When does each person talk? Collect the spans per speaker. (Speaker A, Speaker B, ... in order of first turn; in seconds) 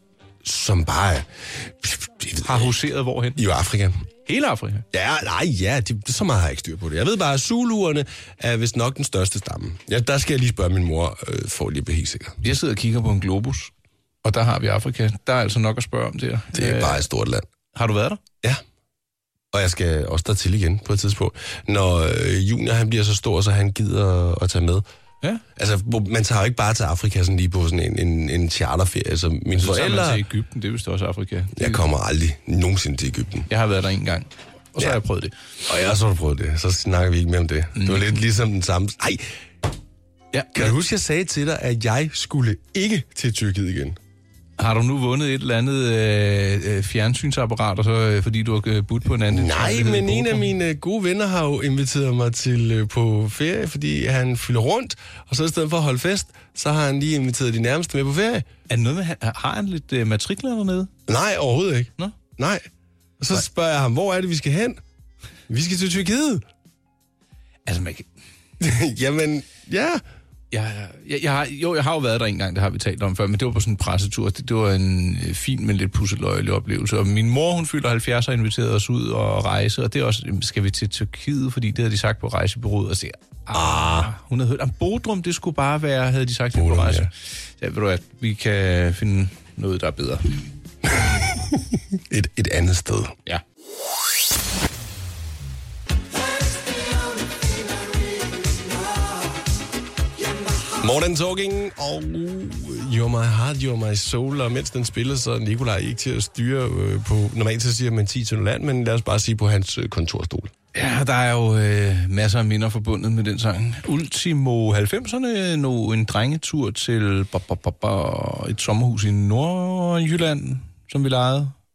Speaker A: 0.4-2.7, 3.4-4.0, 4.9-12.4, 16.5-17.5, 19.5-24.8, 25.6-30.2, 31.6-33.5, 35.7-39.3, 40.5-44.0, 49.3-58.5, 61.1-62.7, 63.2-64.8, 65.5-66.5, 68.6-70.0, 83.5-84.1, 86.5-87.1, 90.8-93.2, 100.8-110.5
Speaker B: 2.4-3.4, 4.3-4.9, 12.4-13.7, 14.2-17.1, 17.7-18.2, 29.6-31.9, 33.5-35.4, 37.8-38.2, 40.3-40.8, 44.6-50.5, 58.7-60.9, 67.7-68.1, 70.5-90.4, 110.7-121.6